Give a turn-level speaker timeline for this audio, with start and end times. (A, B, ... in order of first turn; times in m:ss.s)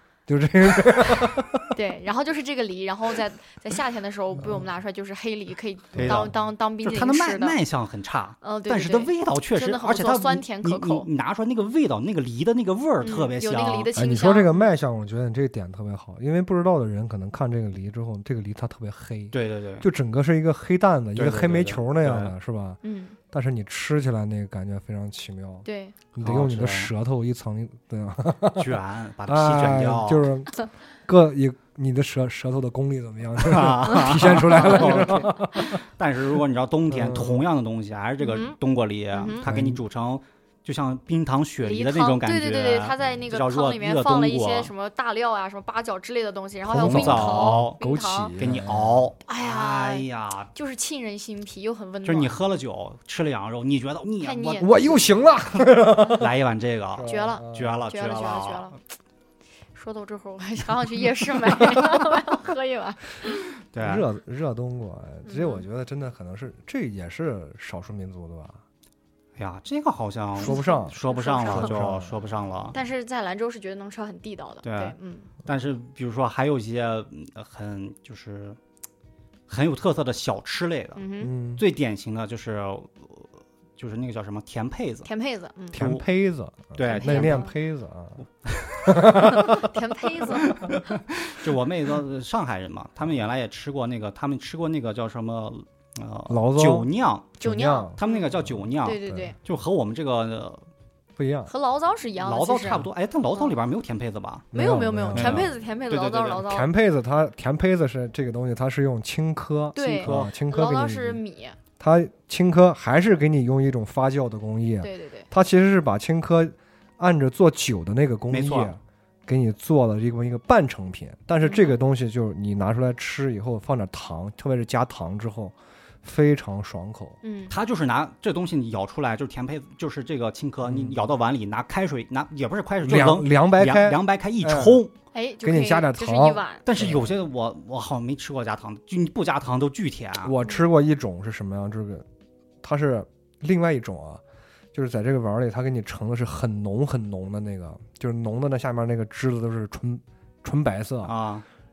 0:00.3-0:01.7 A
0:01.7-0:07.6 B
0:06.0-0:13.9 C
0:06.0-0:06.3 A
0:08.4-0:11.1 B
0:13.0-0:14.7 B
0:14.0-0:35.8 A
0:19.3-0:19.9 C
0:21.2-0:22.3 C
0:22.8-0:23.2 B
0:25.6-0:26.0 B
0:26.2-0:26.9 C
0:28.6-0:30.3 C
0:33.4-0:44.7 C
0:34.6-0:35.0 B
0:36.9-0:37.5 A
0:38.2-0:38.6 B
0:39.1-0:39.5 B
0:39.4-0:39.8 A
0:41.6-0:48.4 B
0:46.6-0:49.1 A
0:46.7-0:47.8 C
0:48.4-0:50.5 C
0:49.3-0:52.4 B
0:52.0-0:58.8 C
0:54.2-0:54.8 B
0:54.6-0:56.3 A
0:56.9-0:57.8 A
0:57.1-0:58.8 B
0:59.7-1:03.5 B
1:03.7-1:04.1 C
1:03.8-1:08.6 A
1:05.2-1:05.6 B
1:09.4-1:12.8 C
1:10.4-1:12.2 A
1:10.4-1:11.8 B
1:12.7-1:15.3 B
1:14.6-1:18.6 C
1:19.5-1:25.1 C
1:21.0-1:21.3 B
1:21.2-1:21.6 A
1:25.0-1:25.8 B
1:25.7-1:26.0 C
1:25.7-1:28.2 A
1:26.8-1:27.4 C
1:26.8-1:27.5 B
1:28.5-1:29.1 C
1:28.8-1:29.7 A
1:29.2-1:30.8 B
1:30.5-1:37.4 C
1:36.3-1:39.3 A
1:37.4-1:39.4 B
1:38.0-1:40.7 C
1:41.2-1:41.5 A
1:41.5-1:43.6 B
1:42.2-1:44.5 C
1:44.5-1:45.5 A
1:44.5-1:46.7 B
1:45.1-1:46.5 C
1:46.4-1:51.2 A
1:49.8-1:51.6 B
1:50.0-1:50.3 C
1:51.8-2:07.2 A
1:54.8-1:55.3 B
1:58.3-1:58.7 C
2:01.4-2:01.8 B
2:07.2-2:07.6 B
2:07.5-2:14.9 C
2:10.6-2:11.0 A
2:12.8-2:14.8 A
2:15.1-2:16.6 B
2:15.4-2:17.1 A
2:16.7-2:20.4 C
2:20.2-2:22.1 A
2:22.6-2:24.2 A
2:24.7-2:31.1 A
2:31.0-2:31.4 C